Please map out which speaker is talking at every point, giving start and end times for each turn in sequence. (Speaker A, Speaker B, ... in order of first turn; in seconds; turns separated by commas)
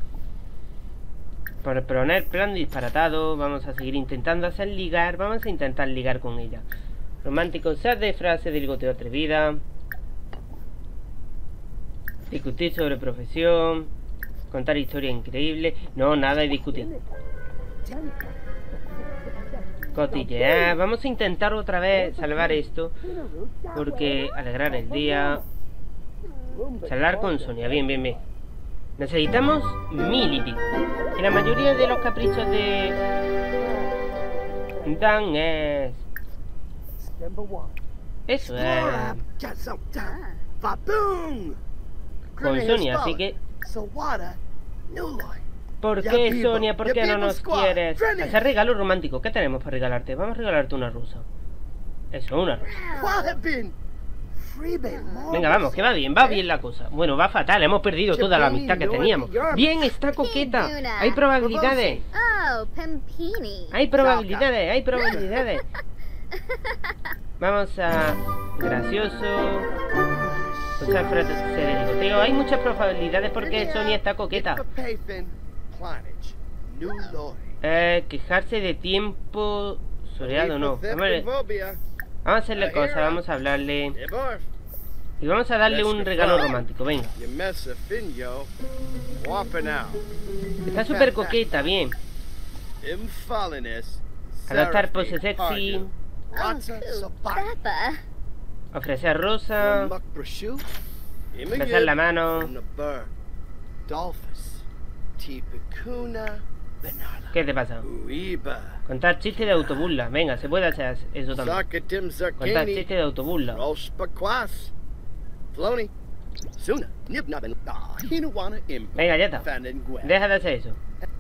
Speaker A: 1.6-6.7, Speaker A: 7.2-9.6, Speaker A: 12.3-13.9, Speaker A: 14.5-16.9, Speaker B: 17.8-18.4, Speaker B: 19.6-20.8, Speaker A: 19.9-23.0, Speaker B: 22.1-22.6, Speaker B: 23.1-25.4, Speaker A: 23.7-25.4, Speaker B: 26.5-28.2, Speaker A: 26.8-28.2, Speaker A: 29.0-33.0, Speaker A: 34.8-36.0, Speaker B: 37.0-37.8, Speaker A: 38.3-39.2, Speaker B: 38.4-41.6, Speaker C: 40.0-40.4, Speaker B: 42.3-45.4, Speaker A: 42.4-43.4, Speaker A: 45.8-51.3, Speaker B: 46.0-48.4, Speaker A: 52.1-52.7, Speaker C: 52.6-53.4, Speaker B: 52.9-53.8, Speaker B: 54.4-56.0, Speaker C: 54.9-55.5, Speaker A: 55.3-62.0, Speaker B: 58.1-59.8, Speaker C: 60.2-61.2, Speaker B: 61.4-62.0, Speaker C: 62.1-63.8, Speaker A: 63.7-65.7, Speaker B: 64.0-64.5, Speaker C: 66.5-66.9, Speaker A: 67.4-69.7, Speaker C: 70.1-70.4, Speaker B: 70.5-71.2, Speaker A: 70.8-74.6, Speaker B: 73.4-77.6, Speaker A: 77.6-81.3, Speaker B: 80.2-81.8, Speaker A: 82.2-84.0, Speaker B: 82.5-83.2, Speaker B: 83.9-84.5, Speaker A: 85.2-87.1, Speaker B: 85.7-88.5, Speaker B: 89.2-90.0, Speaker A: 90.7-92.0, Speaker B: 90.9-91.5, Speaker B: 92.8-97.5, Speaker A: 94.5-95.9, Speaker C: 96.3-98.0, Speaker A: 98.7-99.9, Speaker B: 99.6-100.7, Speaker B: 101.3-103.1, Speaker A: 101.5-102.5, Speaker B: 103.9-104.7, Speaker B: 105.2-108.8, Speaker A: 107.3-107.9, Speaker A: 108.9-111.6, Speaker B: 111.3-112.9, Speaker A: 112.4-113.6, Speaker B: 113.5-114.7, Speaker B: 115.5-115.9, Speaker B: 116.6-120.2, Speaker A: 119.0-119.5, Speaker A: 120.0-120.8